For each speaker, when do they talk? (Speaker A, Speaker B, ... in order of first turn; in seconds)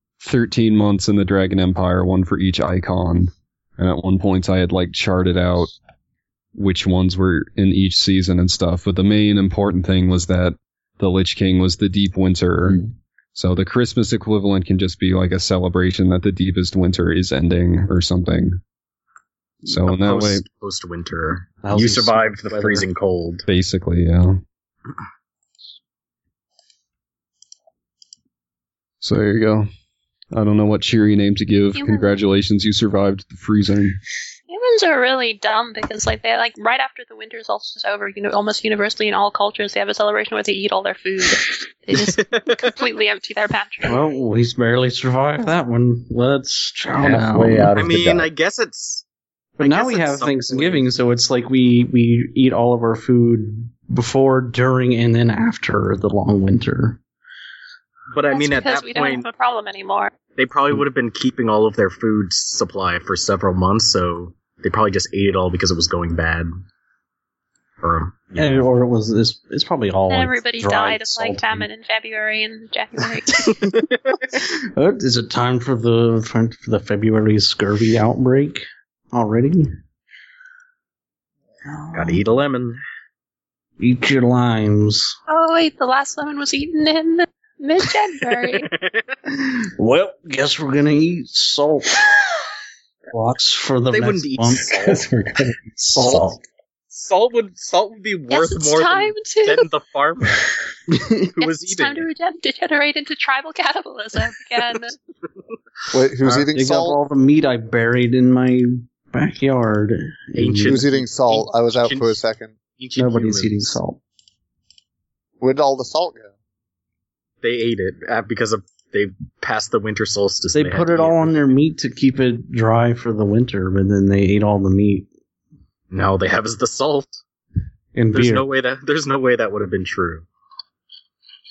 Speaker A: 0.2-5.7, 6.5-12.8, 13.3-18.6, 19.7-20.5, 23.5-24.4, 29.0-29.7, 30.3-34.0
Speaker B: 19.7-23.5, 42.0-42.6, 47.8-49.0, 49.6-50.9, 58.1-59.3, 60.3-66.5, 67.8-68.7, 73.8-74.2, 81.9-82.8, 88.5-89.1, 93.9-95.0, 96.9-100.5, 101.3-102.1, 110.3-112.2, 112.7-113.8, 117.4-121.4, 125.9-127.2, 128.1-130.3
Speaker C: 21.6-22.9, 43.9-47.7, 49.6-57.0, 68.3-71.7, 73.4-73.6, 74.3-79.8, 81.7-82.2, 83.8-85.2, 89.4-92.0, 93.1-94.7, 95.8-96.2, 100.9-101.3, 106.2-110.8, 113.0-114.0, 120.5-125.1, 128.0-128.5
Speaker D: 31.8-32.1, 34.5-43.9, 58.3-60.1, 70.1-73.5, 85.3-88.7, 98.3-99.7, 101.4-105.0
Speaker E: 47.0-48.3, 94.7-96.4
Speaker F: 105.9-107.0, 110.7-112.6, 115.4-116.3